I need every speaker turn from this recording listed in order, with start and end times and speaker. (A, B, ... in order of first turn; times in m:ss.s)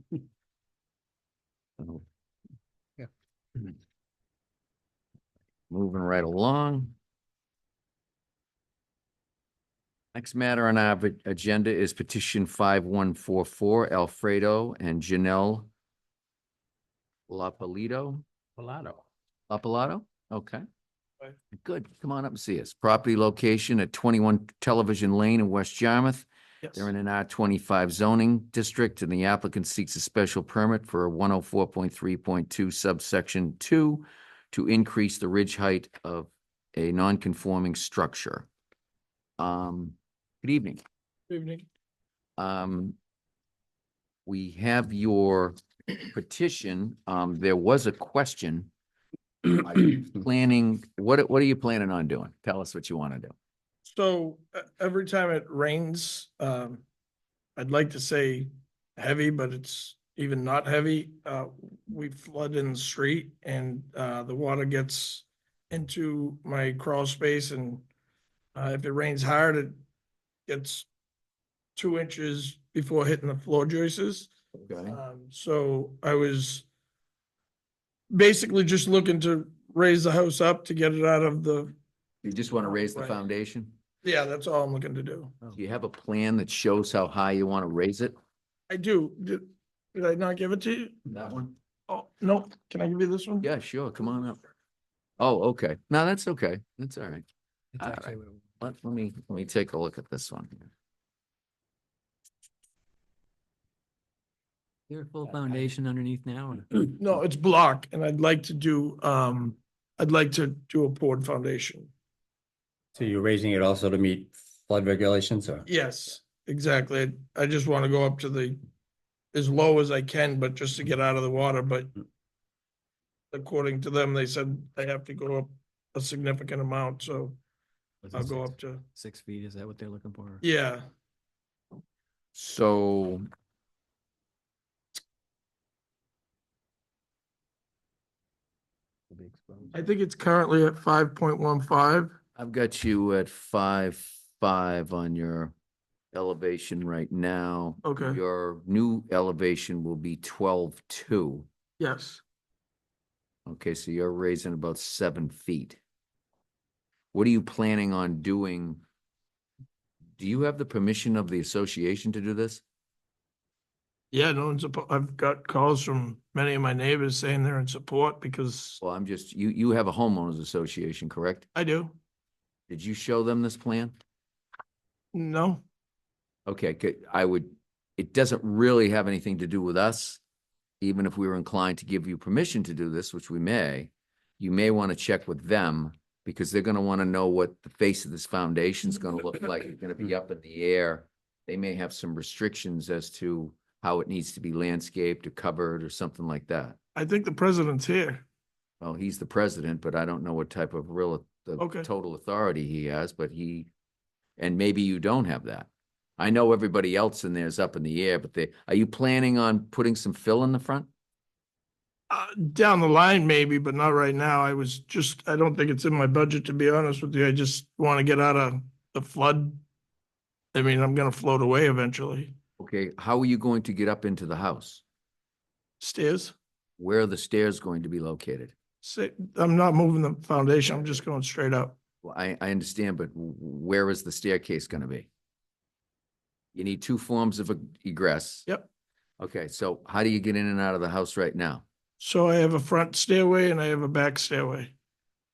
0:05.7-0:07.0 A
0:10.1-0:15.7 A
0:17.3-0:18.2 A
0:18.6-0:19.0 B
0:19.5-0:20.6 A
0:21.6-0:38.5 A
0:26.6-0:26.9 C
0:39.4-0:40.8 A
0:41.3-0:41.7 C
0:42.4-0:43.0 A
0:44.3-0:45.6 A
0:46.1-0:48.7 A
0:49.5-0:53.3 A
0:53.9-0:56.8 C
0:57.6-1:07.9 C
1:08.6-1:09.8 C
1:10.5-1:10.9 C
1:11.8-1:14.3 C
1:14.6-1:15.0 A
1:14.9-1:16.7 C
1:18.1-1:21.8 C
1:22.2-1:23.8 A
1:22.6-1:23.2 C
1:24.0-1:25.4 C
1:25.5-1:28.1 A
1:28.7-1:31.0 C
1:31.1-1:31.6 A
1:31.9-1:33.5 C
1:33.4-1:34.4 A
1:35.2-1:37.2 A
1:37.8-1:38.4 D
1:37.8-1:40.7 A
1:44.9-1:47.0 D
1:47.0-1:51.9 C
1:53.0-1:55.7 B
1:55.7-1:58.6 C
1:59.3-2:01.9 C
2:03.3-2:07.4 C
2:08.0-2:10.4 D
2:08.1-2:08.8 C
2:10.4-2:10.9 C
2:12.4-2:13.2 A
2:19.1-2:19.8 D
2:19.7-2:22.1 C
2:22.4-2:25.5 A
2:26.1-2:31.5 A
2:27.8-2:28.2 C
2:31.8-2:32.2 C
2:33.5-2:35.8 A
2:37.1-2:38.8 A
2:40.2-2:42.6 A
2:44.1-2:48.8 C
2:48.8-2:51.5 A
2:51.6-2:52.0 C
2:52.7-2:53.9 A
2:55.1-2:55.6 C
2:56.5-3:00.2 A
3:00.8-3:16.8 A
3:17.0-3:18.2 C
3:18.8-3:23.7 A
3:21.6-3:21.9 C
3:24.4-3:30.9 A
3:32.1-3:39.6 C
3:40.5-3:42.4 C
3:42.6-3:44.8 A
3:45.8-3:46.4 C
3:46.8-3:48.5 A
3:48.8-3:51.8 C
3:50.6-3:51.0 A
3:52.0-3:55.1 A
3:56.5-3:58.5 A
3:59.2-4:01.6 A
4:02.0-4:04.7 C